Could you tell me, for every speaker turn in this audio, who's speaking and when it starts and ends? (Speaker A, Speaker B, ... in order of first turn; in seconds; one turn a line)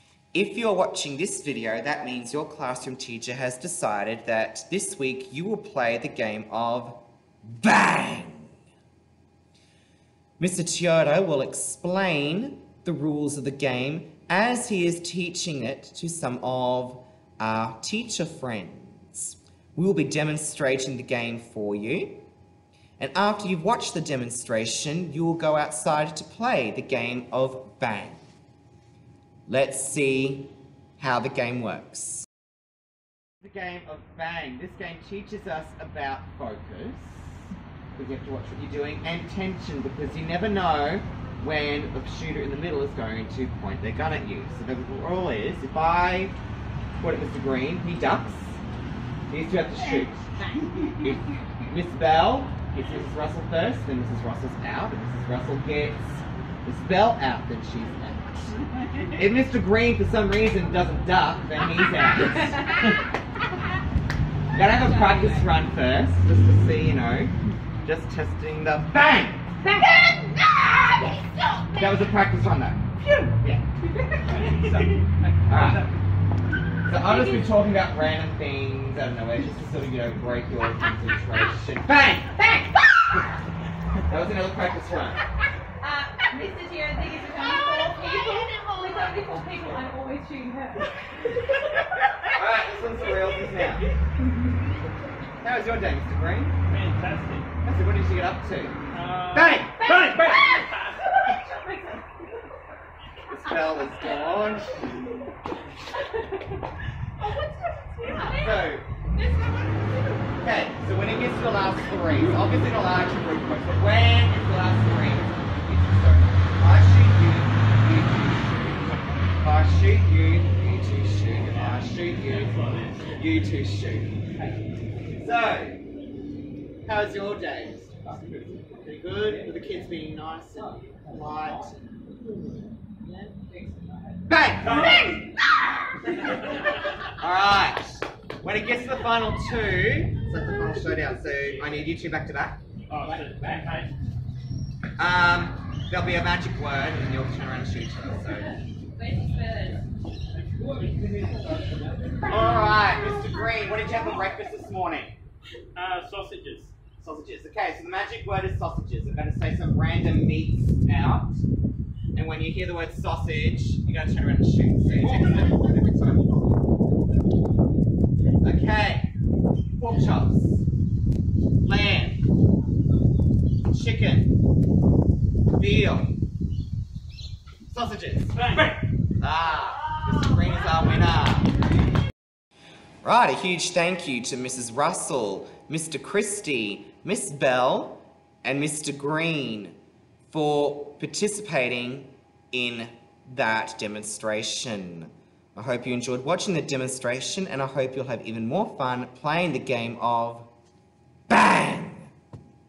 Speaker A: 0.3-8.5
Speaker A: 10.4-22.2
Speaker A: 23.0-28.2
Speaker A: 29.5-32.3
Speaker A: 33.4-46.4
Speaker A: 47.0-48.6
Speaker A: 49.3-50.2
Speaker B: 50.6-50.9
Speaker A: 51.0-58.3
Speaker A: 59.1-63.0
Speaker A: 64.5-67.3
Speaker B: 64.5-65.5
Speaker A: 67.8-69.8
Speaker B: 69.8-72.1
Speaker A: 71.8-73.7
Speaker B: 74.0-74.4
Speaker C: 74.4-75.0
Speaker A: 74.5-74.9
Speaker A: 75.5-75.9
Speaker A: 76.9-83.2
Speaker A: 84.1-85.2
Speaker B: 85.8-91.0
Speaker A: 92.3-93.9
Speaker A: 95.4-96.6
Speaker C: 96.7-97.5
Speaker A: 97.6-98.8
Speaker C: 98.9-101.1
Speaker A: 99.3-100.3
Speaker B: 99.8-102.4
Speaker A: 103.3-105.0
Speaker B: 103.5-104.5
Speaker B: 105.9-106.6
Speaker B: 107.2-110.2
Speaker A: 108.3-108.8
Speaker A: 110.4-122.6
Speaker C: 122.3-123.1
Speaker A: 123.1-124.2
Speaker A: 125.1-125.8
Speaker A: 126.8-131.8
Speaker A: 134.3-135.2
Speaker C: 134.6-135.2
Speaker A: 137.0-142.6
Speaker C: 142.9-143.9
Speaker A: 145.0-148.6
Speaker B: 148.9-149.8
Speaker A: 152.2-155.2
Speaker C: 155.8-156.8
Speaker A: 157.0-161.4
Speaker A: 162.2-166.4
Speaker A: 168.4-169.1
Speaker A: 169.8-170.7
Speaker A: 171.6-172.2
Speaker A: 173.7-174.3
Speaker A: 175.5-176.2
Speaker A: 177.7-178.4
Speaker C: 178.3-178.8
Speaker A: 179.2-181.5
Speaker A: 183.0-189.8
Speaker A: 190.3-200.5
Speaker A: 201.3-202.1